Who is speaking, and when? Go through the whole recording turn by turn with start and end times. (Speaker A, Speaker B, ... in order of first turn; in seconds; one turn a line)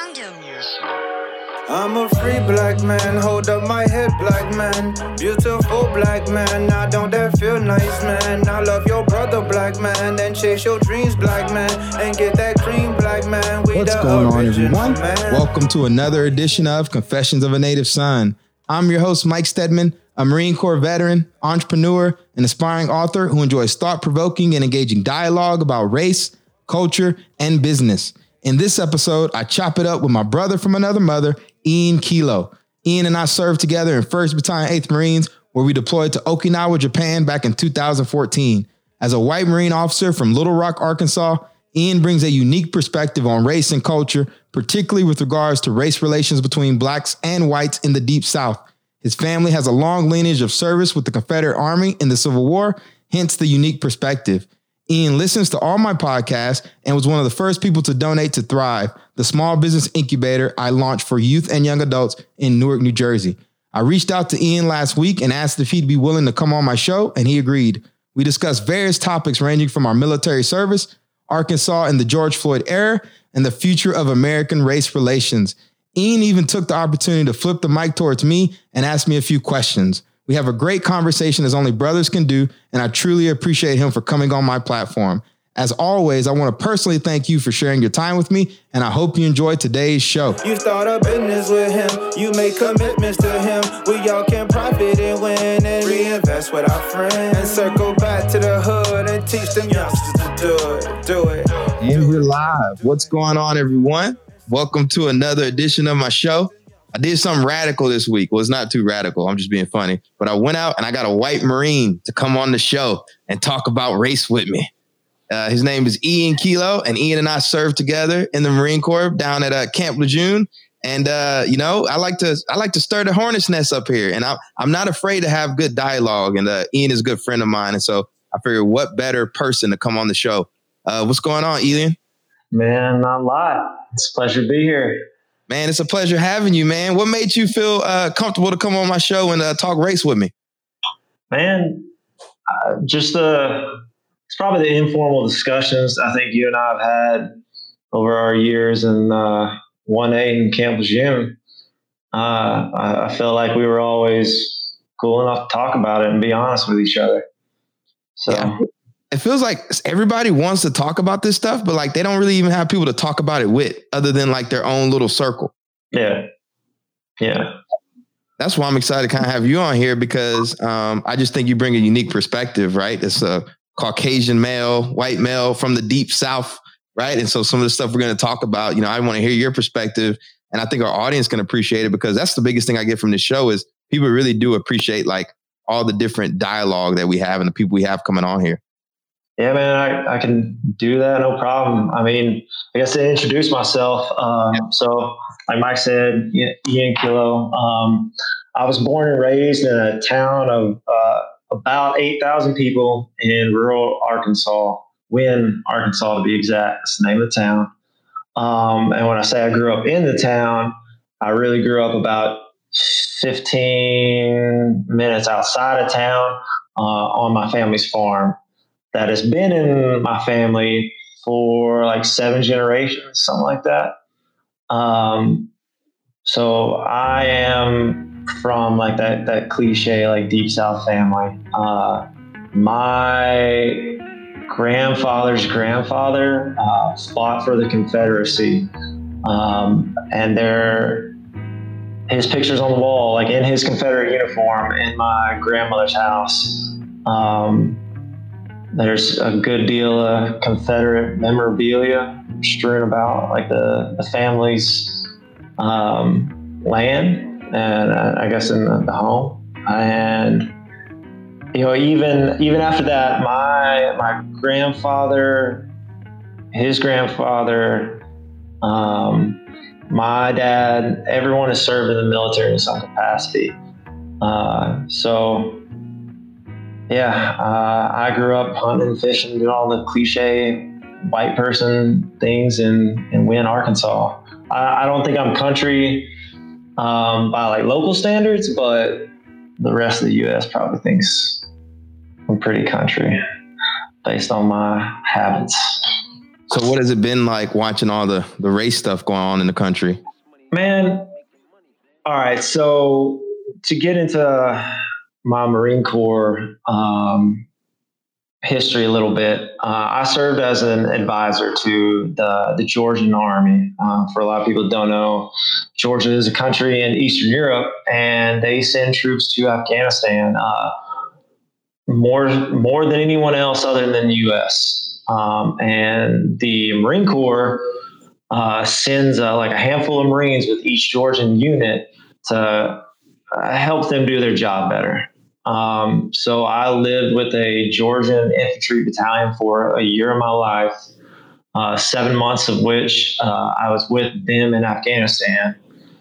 Speaker A: 1.7-15.5
Speaker B: 13.7-90.4
Speaker A: 90.4-101.8
Speaker B: 101.8-114.7
Speaker B: 115.3-132.0
Speaker C: 132.5-135.0
Speaker B: 135.5-140.3
Speaker C: 141.3-141.9
Speaker C: 142.5-147.3
Speaker C: 147.9-151.4
Speaker C: 152.1-157.2
Speaker C: 158.2-158.6
Speaker B: 159.1-165.5
Speaker C: 165.9-166.3
Speaker C: 167.2-167.5
Speaker B: 168.4-188.6
Speaker C: 189.4-207.7
Speaker C: 208.4-218.4
Speaker C: 218.9-223.9
Speaker C: 224.7-225.5
Speaker C: 226.2-233.9
Speaker C: 234.5-238.7
Speaker C: 239.2-241.1
Speaker C: 242.1-247.8
Speaker C: 248.7-255.1
Speaker C: 255.6-260.5
Speaker C: 261.5-265.7
Speaker C: 266.5-268.0
Speaker C: 268.6-273.6
Speaker C: 274.2-275.6
Speaker C: 276.9-286.1
Speaker C: 286.8-289.1
Speaker C: 289.6-291.5
Speaker C: 292.3-293.2
Speaker C: 294.0-295.8
Speaker B: 296.5-300.0
Speaker C: 300.5-301.1
Speaker C: 302.1-307.4
Speaker C: 308.4-320.7
Speaker C: 321.9-327.6
Speaker C: 328.3-340.8
Speaker C: 341.5-345.6